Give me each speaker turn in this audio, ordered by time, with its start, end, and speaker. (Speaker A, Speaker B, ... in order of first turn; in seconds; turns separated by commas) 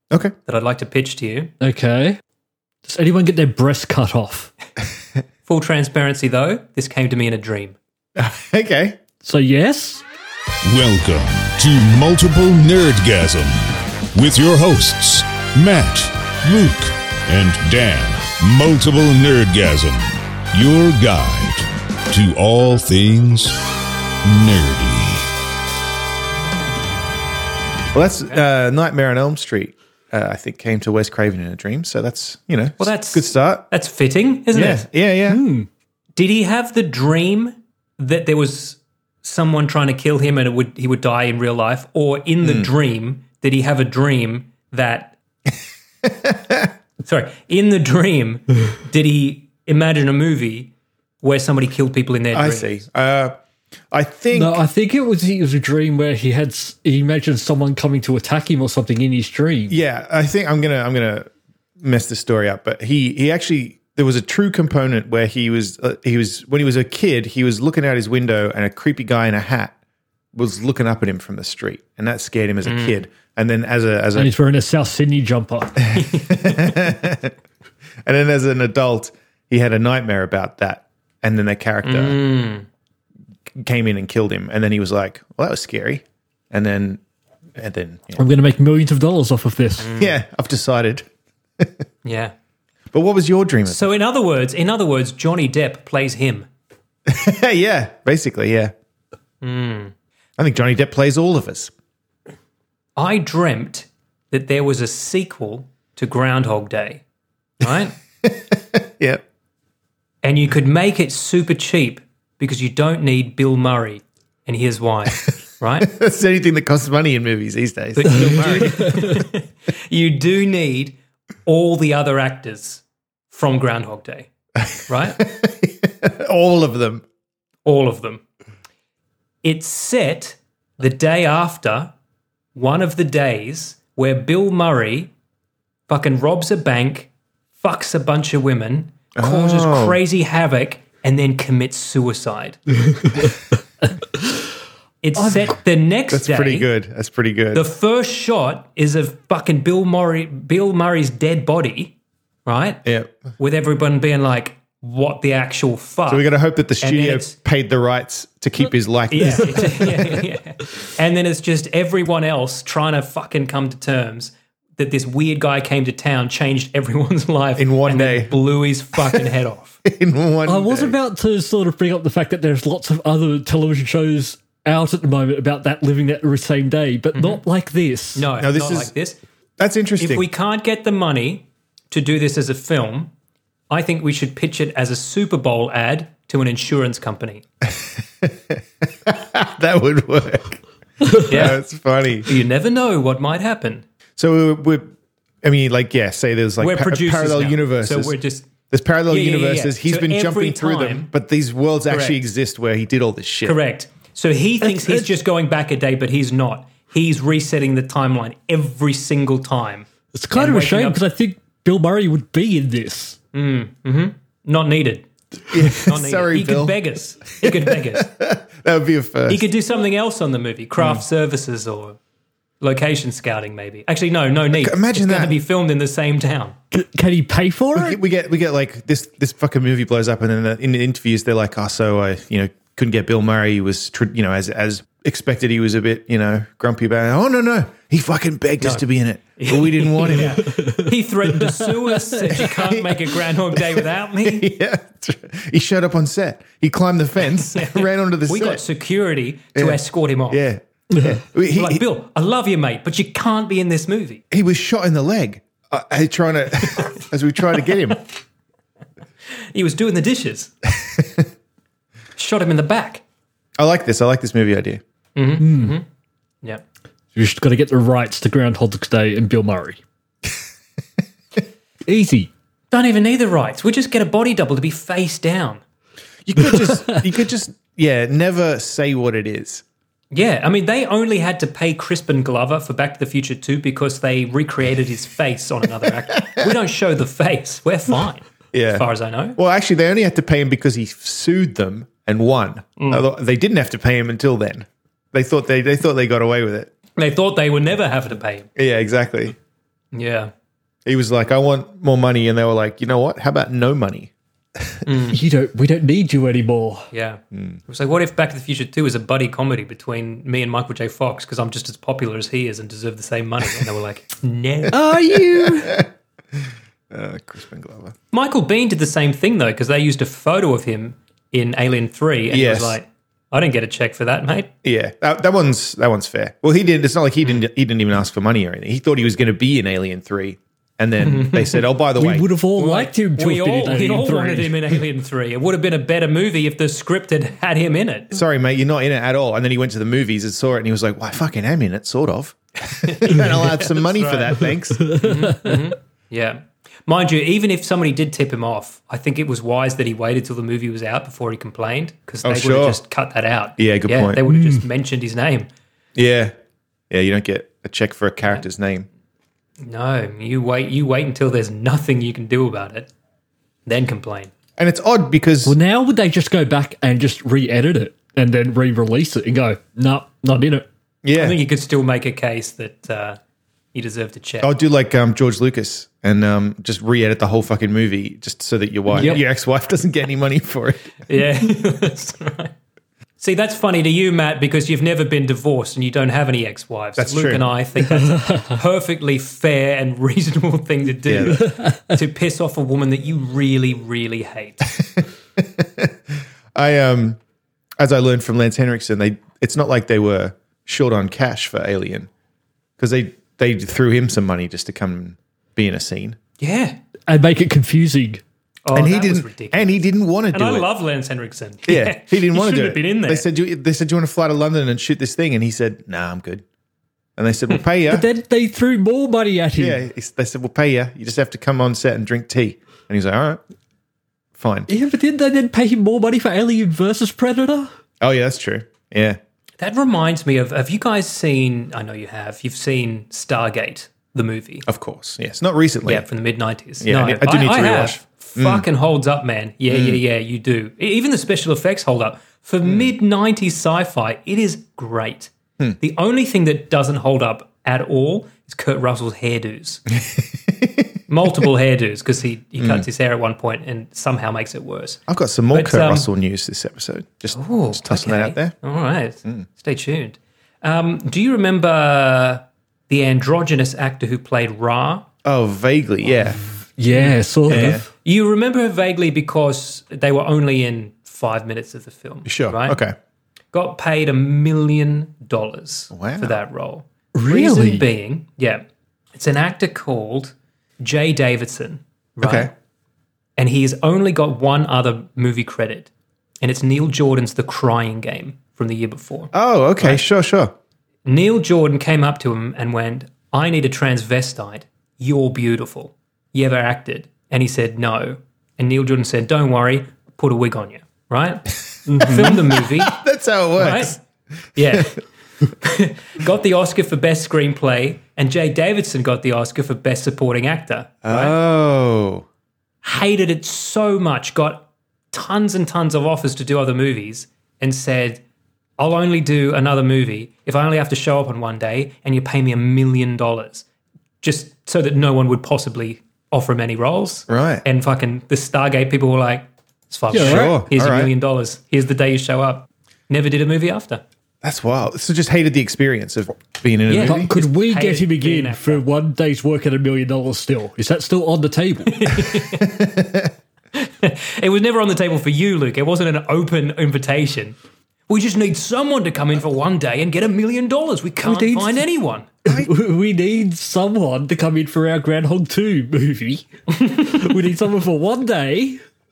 Speaker A: 0.5-1.5, Speaker B: 1.6-2.2, Speaker B: 2.8-4.5, Speaker A: 5.5-7.8, Speaker C: 8.2-9.0, Speaker B: 9.2-10.0, Speaker D: 10.7-23.6, Speaker D: 24.2-25.3, Speaker C: 27.9-33.6, Speaker A: 32.8-34.9, Speaker C: 34.5-35.4, Speaker B: 35.3-35.7, Speaker A: 36.1-45.2, Speaker C: 42.4-42.7, Speaker C: 46.0-46.7, Speaker A: 47.0-52.8, Speaker C: 52.3-53.3, Speaker C: 53.9-54.6, Speaker B: 54.3-59.8, Speaker C: 59.7-61.3, Speaker C: 61.8-69.7, Speaker C: 70.3-74.3, Speaker A: 72.7-73.0, Speaker B: 74.2-75.8, Speaker C: 75.8-77.3, Speaker A: 76.0-76.8, Speaker C: 78.1-82.2, Speaker A: 81.8-82.7, Speaker C: 83.6-87.0, Speaker C: 87.6-88.2, Speaker B: 88.2-89.9, Speaker A: 89.8-90.2, Speaker C: 90.0-91.1, Speaker A: 92.0-92.3, Speaker C: 92.9-93.8, Speaker A: 93.7-96.5, Speaker C: 97.1-98.7, Speaker A: 99.4-99.9, Speaker C: 100.4-101.7, Speaker A: 103.0-107.0, Speaker A: 107.6-108.0, Speaker C: 108.2-109.2, Speaker A: 110.2-115.9, Speaker C: 115.8-119.1, Speaker A: 118.0-125.2, Speaker C: 124.6-127.0, Speaker A: 127.7-128.2, Speaker A: 129.4-131.9, Speaker A: 132.5-135.1, Speaker A: 135.9-142.6, Speaker C: 139.2-140.0, Speaker A: 145.0-146.7, Speaker C: 146.1-147.7, Speaker A: 147.5-151.9, Speaker A: 152.5-152.8, Speaker C: 152.8-153.3, Speaker A: 153.4-156.3, Speaker C: 156.1-160.2, Speaker A: 156.8-157.4, Speaker A: 159.1-169.8, Speaker C: 167.6-168.4, Speaker C: 169.8-171.0, Speaker B: 170.4-178.3, Speaker A: 177.1-177.4, Speaker A: 178.2-179.2, Speaker C: 178.4-178.9, Speaker C: 179.6-180.2, Speaker A: 180.0-183.1, Speaker A: 183.7-187.4, Speaker C: 187.7-190.6, Speaker C: 191.1-192.3, Speaker A: 191.2-191.6, Speaker A: 192.2-193.8, Speaker C: 194.2-194.9, Speaker C: 195.4-198.2, Speaker A: 196.6-198.5, Speaker C: 198.7-203.6, Speaker A: 199.1-201.1, Speaker A: 201.9-202.2, Speaker A: 203.4-211.0, Speaker B: 204.6-205.1, Speaker B: 210.1-213.2, Speaker A: 213.3-215.1, Speaker C: 215.5-216.8, Speaker A: 215.8-218.1, Speaker C: 217.3-219.5, Speaker A: 219.3-222.0, Speaker A: 222.6-226.6, Speaker C: 224.5-225.4, Speaker B: 226.7-228.0, Speaker C: 227.8-240.4, Speaker A: 239.4-244.5, Speaker B: 240.5-242.4, Speaker C: 242.4-248.6, Speaker A: 247.4-250.4, Speaker C: 249.6-251.8, Speaker A: 251.5-254.2, Speaker C: 254.3-258.0, Speaker A: 259.5-260.5, Speaker C: 260.9-261.2, Speaker A: 262.2-263.0, Speaker C: 263.6-264.8, Speaker A: 265.1-265.9, Speaker B: 265.4-265.8, Speaker B: 267.1-269.8, Speaker B: 271.9-272.3, Speaker A: 272.7-275.6, Speaker C: 276.2-279.6, Speaker B: 276.4-277.0, Speaker A: 280.1-289.4, Speaker C: 288.5-296.7, Speaker A: 292.8-293.1, Speaker A: 297.0-298.5, Speaker C: 298.6-299.4, Speaker A: 299.9-300.3, Speaker C: 300.9-304.9, Speaker A: 304.9-305.2, Speaker B: 305.1-306.9, Speaker A: 306.9-314.8, Speaker C: 307.3-307.6, Speaker B: 314.7-315.8, Speaker C: 314.9-317.9, Speaker A: 318.1-324.5, Speaker C: 322.3-322.8, Speaker C: 324.6-332.3, Speaker A: 331.0-331.7, Speaker B: 332.0-334.8, Speaker A: 332.6-338.1, Speaker C: 338.1-345.0, Speaker A: 342.7-355.5, Speaker B: 344.8-345.7, Speaker C: 352.2-352.8, Speaker C: 353.6-354.2, Speaker B: 354.3-354.6, Speaker C: 355.9-356.3, Speaker C: 356.9-358.9, Speaker A: 359.6-362.9, Speaker A: 363.7-364.3, Speaker C: 364.6-365.6, Speaker B: 365.4-370.6, Speaker C: 371.0-371.4, Speaker A: 371.1-373.2, Speaker A: 373.7-374.5, Speaker C: 374.4-381.0, Speaker B: 378.9-379.2, Speaker A: 378.9-379.2, Speaker A: 381.1-382.5, Speaker A: 383.2-394.7, Speaker C: 386.9-387.4, Speaker B: 387.9-388.6, Speaker C: 391.1-391.4, Speaker B: 391.3-392.0, Speaker C: 394.8-395.9, Speaker C: 396.6-397.2, Speaker C: 397.8-402.1, Speaker C: 402.8-406.2, Speaker A: 406.4-406.8, Speaker B: 407.1-408.2, Speaker A: 408.7-413.3, Speaker C: 408.7-410.7, Speaker C: 411.7-416.4, Speaker C: 417.2-418.1, Speaker B: 417.9-419.8, Speaker C: 419.6-423.4, Speaker C: 424.4-424.7, Speaker B: 424.7-427.7, Speaker C: 428.0-429.2, Speaker A: 429.6-434.7, Speaker C: 434.7-436.1, Speaker A: 435.9-449.8, Speaker C: 436.8-438.6, Speaker C: 439.7-440.0, Speaker C: 442.6-442.9, Speaker C: 449.9-450.9, Speaker A: 451.1-456.1, Speaker C: 452.6-452.9, Speaker C: 455.1-458.5, Speaker A: 457.3-465.1, Speaker C: 465.2-466.4, Speaker B: 466.3-467.9, Speaker A: 466.9-472.8, Speaker C: 467.5-467.9, Speaker C: 472.2-472.9, Speaker A: 473.5-482.5, Speaker C: 475.9-476.4, Speaker B: 477.1-477.8, Speaker C: 482.2-482.5, Speaker A: 483.4-485.9, Speaker A: 486.4-490.0, Speaker C: 489.3-490.5, Speaker A: 491.1-503.0, Speaker B: 501.9-502.2, Speaker C: 501.9-504.0, Speaker A: 503.6-504.0, Speaker A: 504.6-505.0, Speaker C: 504.6-504.9, Speaker A: 505.6-511.4, Speaker C: 511.0-512.2, Speaker A: 512.8-518.2, Speaker A: 518.8-523.6, Speaker A: 524.2-534.0, Speaker C: 527.3-527.6, Speaker B: 530.1-530.5, Speaker C: 530.1-531.1, Speaker C: 534.4-537.3, Speaker A: 536.9-538.9, Speaker B: 537.0-542.4, Speaker A: 541.9-542.7, Speaker C: 542.6-543.3, Speaker A: 543.8-547.5, Speaker A: 548.1-552.3, Speaker B: 551.2-551.8, Speaker C: 552.5-552.7, Speaker B: 552.5-558.8, Speaker A: 556.8-557.1